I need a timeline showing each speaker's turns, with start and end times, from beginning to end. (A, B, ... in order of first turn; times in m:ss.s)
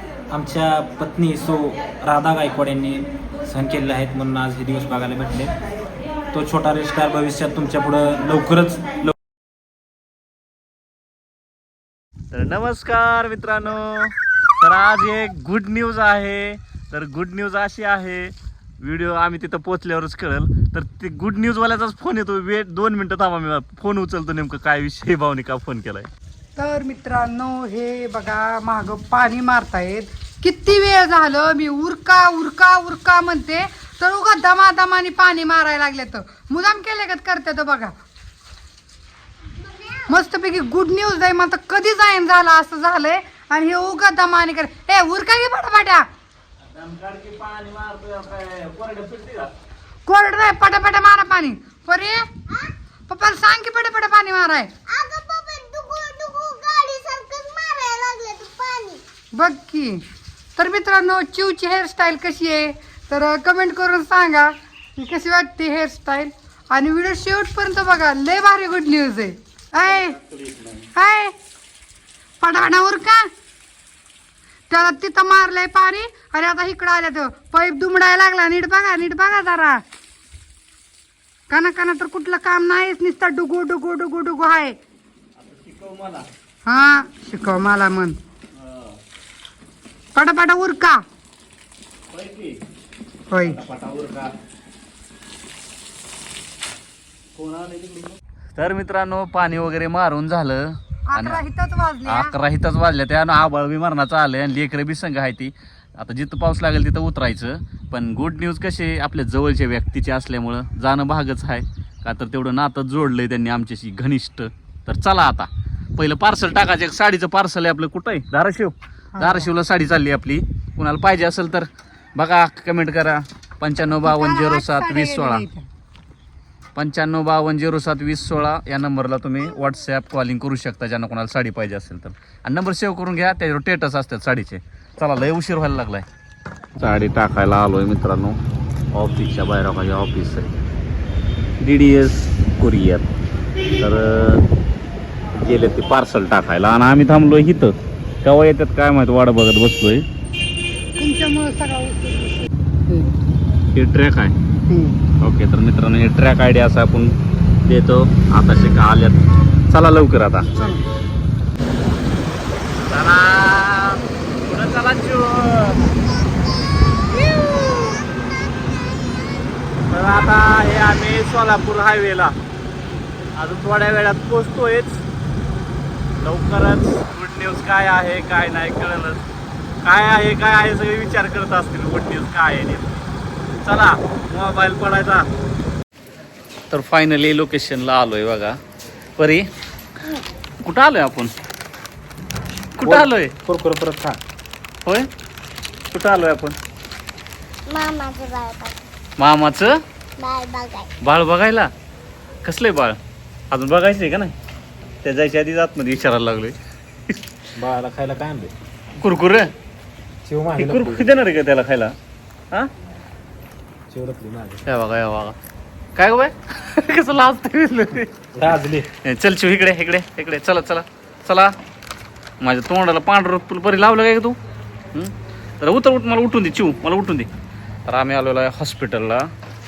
0:00.3-0:05.5 A
0:06.3-0:09.1 A
0:12.3-0:26.1 B
0:26.6-0:37.9 C
0:40.0-0:46.0 C
0:46.7-0:49.5 B
0:50.1-0:52.3 C
0:53.1-0:54.8 C
0:54.8-0:59.0 D
0:59.3-1:00.0 C
1:00.6-1:10.2 C
1:09.8-1:10.9 B
1:11.0-1:11.3 C
1:12.4-1:13.3 C
1:14.7-1:19.8 C
1:21.5-1:24.8 C
1:25.4-1:26.3 B
1:26.7-1:28.2 C
1:28.5-1:29.0 B
1:30.2-1:31.0 C
1:32.1-1:32.6 B
1:33.3-1:33.6 C
1:33.4-1:34.3 B
1:37.4-1:41.4 B
1:41.1-1:42.3 C
1:42.0-2:05.4 B
1:59.2-1:59.5 C
2:04.0-2:05.7 C
2:06.8-2:16.0 B
2:16.8-2:18.4 B
2:18.9-2:20.5 B
2:21.6-2:23.1 B
2:23.8-2:24.4 B
2:25.4-2:30.0 B
2:31.0-2:33.3 C
2:33.7-2:34.4 B
2:34.7-2:35.0 C
2:35.2-2:37.1 B
2:37.7-2:40.6 B
2:40.4-2:40.8 C
2:42.9-2:45.9 B
2:49.9-2:52.4 B
2:53.4-2:55.0 B
2:56.2-2:59.2 B
2:59.8-3:03.0 B
3:03.6-3:05.3 B
3:06.7-3:08.6 B
3:09.2-3:09.5 B
3:10.6-3:11.3 B
3:12.8-3:13.3 B
3:12.8-3:14.2 A
3:15.9-3:16.6 B
3:17.7-3:18.8 D
3:19.2-3:19.8 B
3:20.2-3:20.9 D
3:21.0-3:21.7 B
3:22.4-3:23.0 B
3:23.5-3:24.4 B
3:25.0-3:26.6 B
3:27.6-3:28.5 A
3:29.0-3:29.5 B
3:30.3-3:31.1 A
3:30.6-3:32.0 B
3:33.9-3:34.6 A
3:34.7-3:35.4 B
3:36.0-3:38.3 B
3:38.4-3:38.9 A
3:39.0-3:41.5 B
3:42.4-3:44.4 B
3:44.9-3:47.3 B
3:47.9-3:49.2 B